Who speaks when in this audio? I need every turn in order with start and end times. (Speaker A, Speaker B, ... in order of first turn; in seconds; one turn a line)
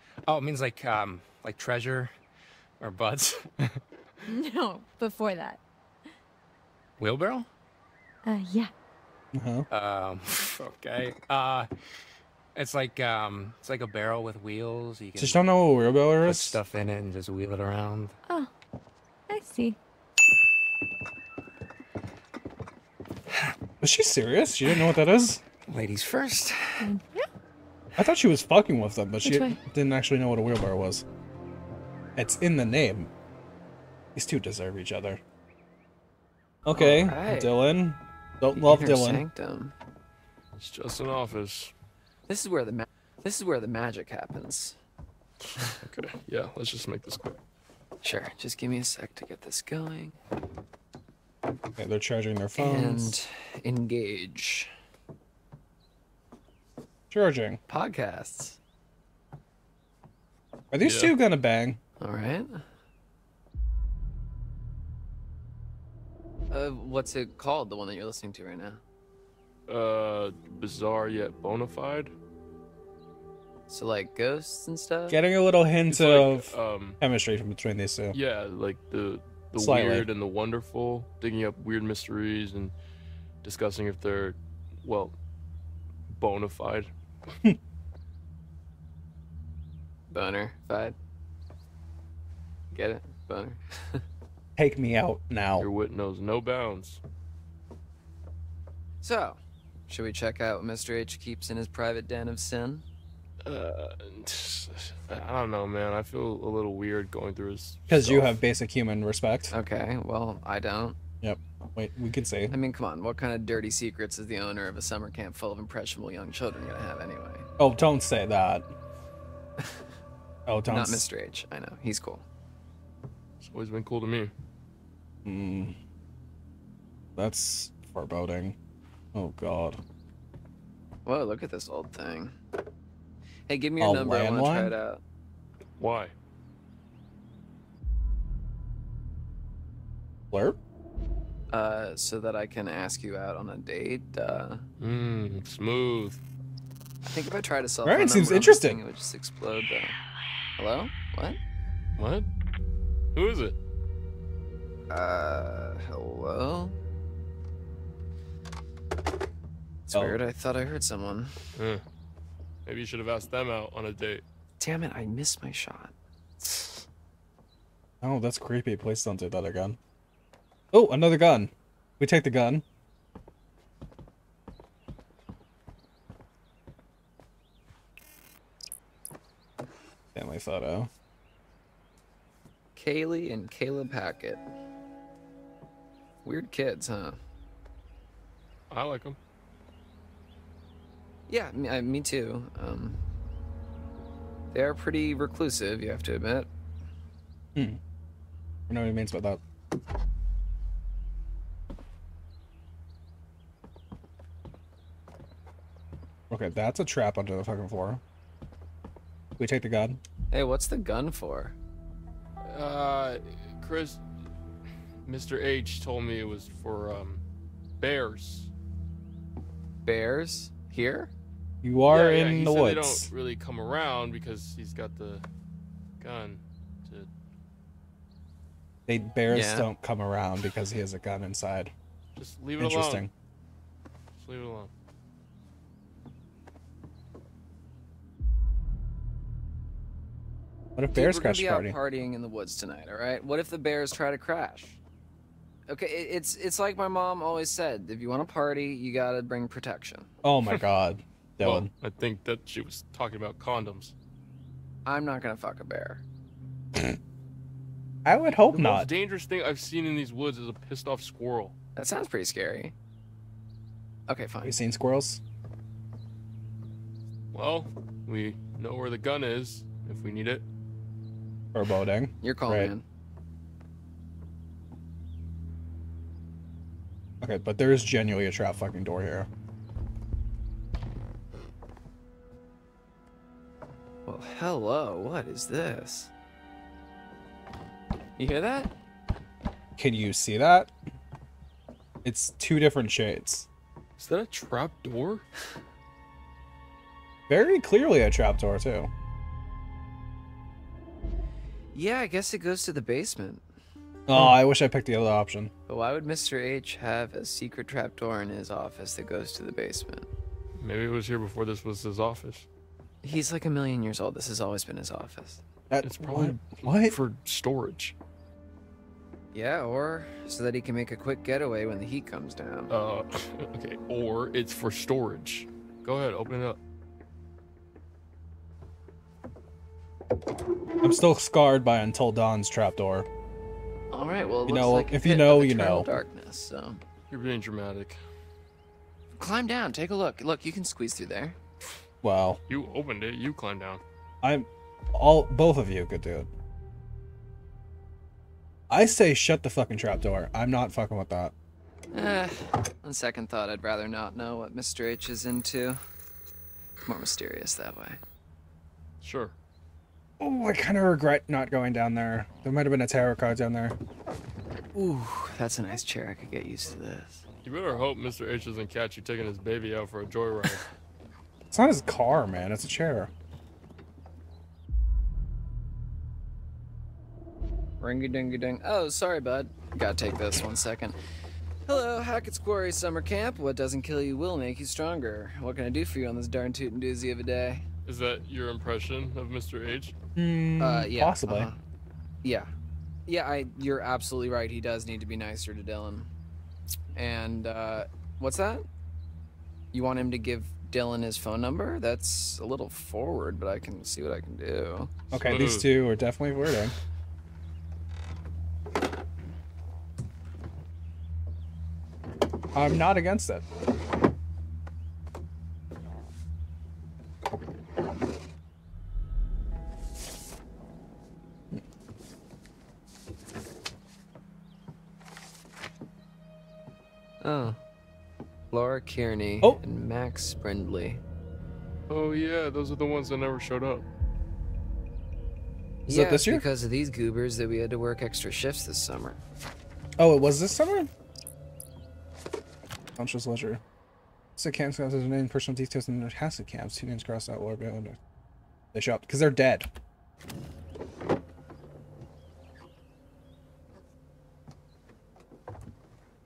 Speaker A: 0.3-2.1
Speaker A: 2.8-3.8
Speaker B: 4.3-5.6
Speaker A: 7.0-7.5
Speaker B: 8.2-8.7
Speaker C: 9.3-9.7
Speaker A: 9.7-11.7
Speaker A: 12.6-15.5
Speaker C: 15.2-16.6
Speaker A: 16.2-18.1
Speaker B: 19.3-19.8
Speaker C: 23.8-25.4
Speaker A: 25.7-26.9
Speaker B: 26.8-27.3
Speaker C: 28.0-31.0
Speaker B: 29.2-29.6
Speaker C: 32.2-33.1
Speaker C: 34.1-35.2
Speaker C: 36.6-39.2
Speaker D: 36.7-37.5
Speaker D: 38.6-39.7
Speaker E: 40.6-41.7
Speaker D: 42.3-44.8
Speaker E: 45.8-47.4
Speaker D: 48.0-50.2
Speaker C: 51.8-53.2
Speaker D: 52.6-54.7
Speaker C: 57.1-57.6
Speaker D: 57.7-58.6
Speaker C: 60.7-61.8
Speaker E: 60.8-61.1
Speaker D: 62.0-62.6
Speaker D: 66.5-68.8
Speaker E: 69.7-72.1
Speaker D: 73.7-75.2
Speaker C: 75.1-78.2
Speaker E: 75.9-77.0
Speaker E: 78.1-82.8
Speaker C: 79.5-80.1
Speaker E: 83.4-85.2
Speaker E: 86.1-86.9
Speaker D: 90.1-91.0
Speaker D: 92.7-94.0
Speaker C: 94.6-95.7
Speaker E: 95.6-97.0
Speaker D: 99.0-102.8
Speaker E: 103.4-108.3
Speaker C: 107.9-109.5
Speaker D: 109.5-111.0
Speaker C: 111.2-112.6
Speaker D: 112.5-117.5
Speaker C: 117.6-118.7
Speaker C: 120.5-121.1
Speaker D: 120.7-122.2
Speaker E: 123.4-124.3
Speaker C: 125.2-125.8
Speaker C: 127.2-128.6
Speaker C: 129.1-129.8
Speaker D: 131.1-132.4
Speaker D: 133.5-135.0
Speaker C: 133.8-134.8
Speaker E: 135.8-136.1
Speaker C: 140.3-140.6
Speaker D: 141.5-144.7
Speaker E: 144.8-146.2
Speaker D: 147.0-150.0
Speaker C: 147.8-148.8
Speaker D: 150.6-151.4
Speaker E: 152.0-152.3
Speaker E: 153.1-153.6
Speaker D: 154.9-156.8
Speaker D: 159.9-161.4
Speaker C: 159.9-160.2
Speaker E: 161.6-161.8
Speaker E: 162.7-164.2
Speaker D: 164.6-165.9
Speaker C: 168.0-169.8
Speaker C: 170.7-172.6
Speaker C: 180.1-180.9
Speaker D: 182.8-184.4
Speaker D: 186.2-187.2
Speaker E: 188.7-189.2
Speaker D: 191.3-193.0
Speaker D: 194.5-196.5
Speaker C: 197.6-197.8
Speaker C: 198.7-199.4
Speaker C: 206.3-208.0
Speaker C: 209.4-210.0
Speaker D: 210.3-211.6
Speaker E: 212.4-214.0
Speaker E: 215.1-217.2
Speaker E: 217.8-218.5
Speaker D: 219.8-221.1
Speaker C: 221.6-223.1
Speaker E: 221.9-225.2
Speaker E: 226.0-227.1
Speaker C: 228.9-231.7
Speaker D: 229.3-229.7
Speaker E: 232.2-233.1
Speaker C: 232.6-233.1
Speaker E: 234.2-234.7
Speaker C: 240.8-241.8
Speaker D: 240.9-244.8
Speaker D: 245.7-250.1
Speaker C: 250.2-251.7
Speaker E: 251.4-253.9
Speaker D: 254.8-256.0
Speaker C: 258.1-258.9
Speaker E: 258.5-261.6
Speaker D: 261.8-262.7
Speaker D: 264.1-264.6
Speaker C: 264.4-265.2
Speaker E: 267.3-270.5
Speaker C: 271.5-272.7
Speaker D: 272.2-272.9
Speaker C: 277.2-279.3
Speaker D: 284.1-286.1
Speaker D: 288.2-288.7
Speaker C: 289.8-290.7
Speaker C: 292.0-293.5
Speaker E: 294.0-295.2
Speaker C: 297.3-298.9
Speaker D: 301.7-303.5
Speaker C: 304.1-305.5
Speaker D: 305.7-310.1
Speaker E: 310.6-312.5
Speaker D: 313.0-315.4
Speaker C: 315.7-317.0
Speaker E: 315.8-317.9
Speaker D: 319.3-322.7
Speaker E: 322.7-326.6
Speaker C: 330.8-333.1
Speaker D: 333.9-336.8
Speaker C: 334.5-335.9
Speaker E: 337.1-338.0
Speaker D: 339.2-341.4
Speaker C: 342.0-342.4
Speaker E: 342.5-343.8
Speaker C: 344.2-346.3
Speaker C: 348.7-351.3
Speaker D: 351.9-355.8
Speaker D: 356.9-358.0
Speaker E: 359.0-359.4
Speaker C: 360.2-363.8
Speaker D: 364.7-367.2
Speaker E: 367.4-370.6
Speaker C: 371.5-373.1
Speaker D: 377.8-381.0
Speaker D: 381.7-387.6
Speaker E: 387.9-389.9
Speaker C: 390.2-391.5
Speaker D: 390.6-391.6
Speaker D: 392.2-392.5
Speaker D: 393.1-396.1
Speaker D: 396.9-398.7
Speaker D: 399.7-404.9
Speaker C: 405.1-406.7
Speaker E: 405.1-405.7
Speaker C: 412.5-413.4
Speaker D: 427.2-427.6
Speaker D: 428.5-431.0
Speaker E: 431.9-433.9
Speaker D: 435.9-439.2
Speaker C: 435.9-436.4
Speaker C: 440.0-440.9
Speaker C: 443.0-443.6
Speaker C: 444.4-448.0
Speaker C: 448.7-449.7